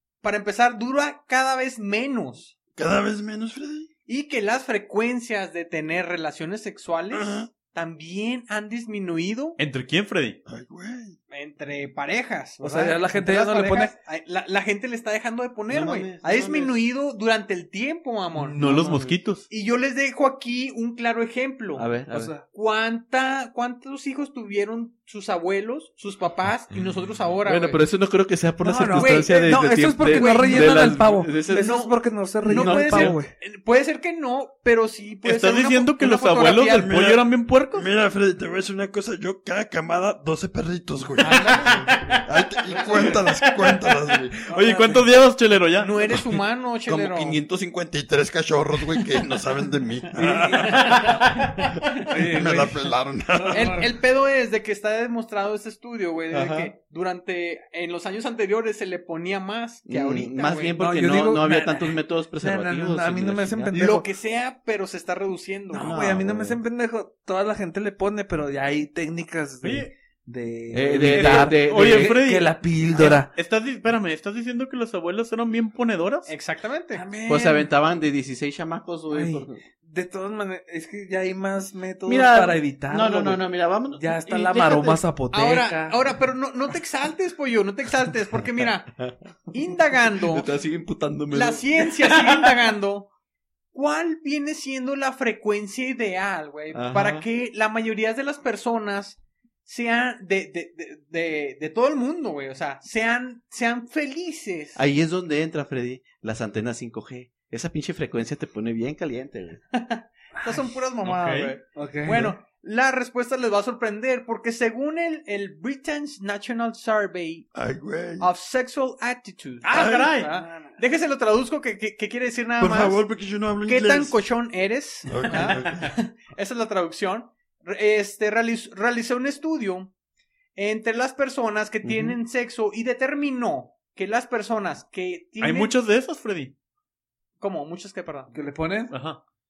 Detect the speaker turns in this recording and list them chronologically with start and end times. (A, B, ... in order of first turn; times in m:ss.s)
0:00.2-0:02.6 A
0:02.8-0:03.9 B
0:04.1-0:09.6 A
0:07.1-0:07.5 B
0:09.6-0:10.4 C
0:10.5-0:11.2 B
0:11.3-0:18.6 A
0:12.6-0:14.0 D
0:15.7-0:16.8 E
0:18.4-0:19.5 C
0:18.6-0:19.2 E
0:19.5-0:27.8 A
0:21.8-0:22.4 E
0:22.1-0:22.4 D
0:27.4-0:33.2 E
0:28.6-0:33.3 D
0:28.9-0:30.9 A
0:31.5-0:36.9 A
0:35.2-0:37.9 C
0:36.7-0:44.5 B
0:41.2-0:41.7 A
0:41.4-0:42.2 C
0:42.9-0:46.2 C
0:44.5-0:45.0 D
0:45.8-0:47.4 A
0:46.9-0:47.9 E
0:47.8-0:51.1 B
0:50.1-0:51.3 D
0:50.7-0:51.6 C
0:52.0-0:53.9 D
0:52.2-0:53.8 B
0:53.5-1:00.8 A
0:56.3-0:56.7 E
0:59.9-1:03.8 E
1:00.8-1:04.1 D
1:03.7-1:06.0 A
1:05.7-1:13.3 D
1:05.8-1:06.6 E
1:09.6-1:09.9 C
1:10.7-1:12.2 E
1:11.1-1:16.3 C
1:16.3-1:17.1 A
1:16.9-1:17.7 D
1:17.3-1:19.6 E
1:19.1-1:26.1 D
1:22.0-1:25.0 E
1:25.3-1:28.9 A
1:29.5-1:30.5 A
1:30.2-1:31.9 E
1:31.3-1:33.1 A
1:33.7-1:44.8 A
1:36.7-1:37.3 E
1:44.8-1:49.6 E
1:49.7-1:57.5 A
1:50.4-1:50.7 D
1:51.0-1:51.6 C
1:51.8-1:52.4 D
1:57.5-1:58.3 B
1:58.2-2:03.1 A
1:59.6-2:00.3 C
1:59.7-2:00.2 B
2:00.4-2:00.8 D
2:02.6-2:04.2 B
2:03.6-2:09.9 A
2:05.1-2:05.9 B
2:10.6-2:15.7 A
2:11.8-2:12.2 E
2:15.4-2:16.6 C
2:17.4-2:18.3 A
2:18.3-2:19.0 D
2:18.9-2:19.2 C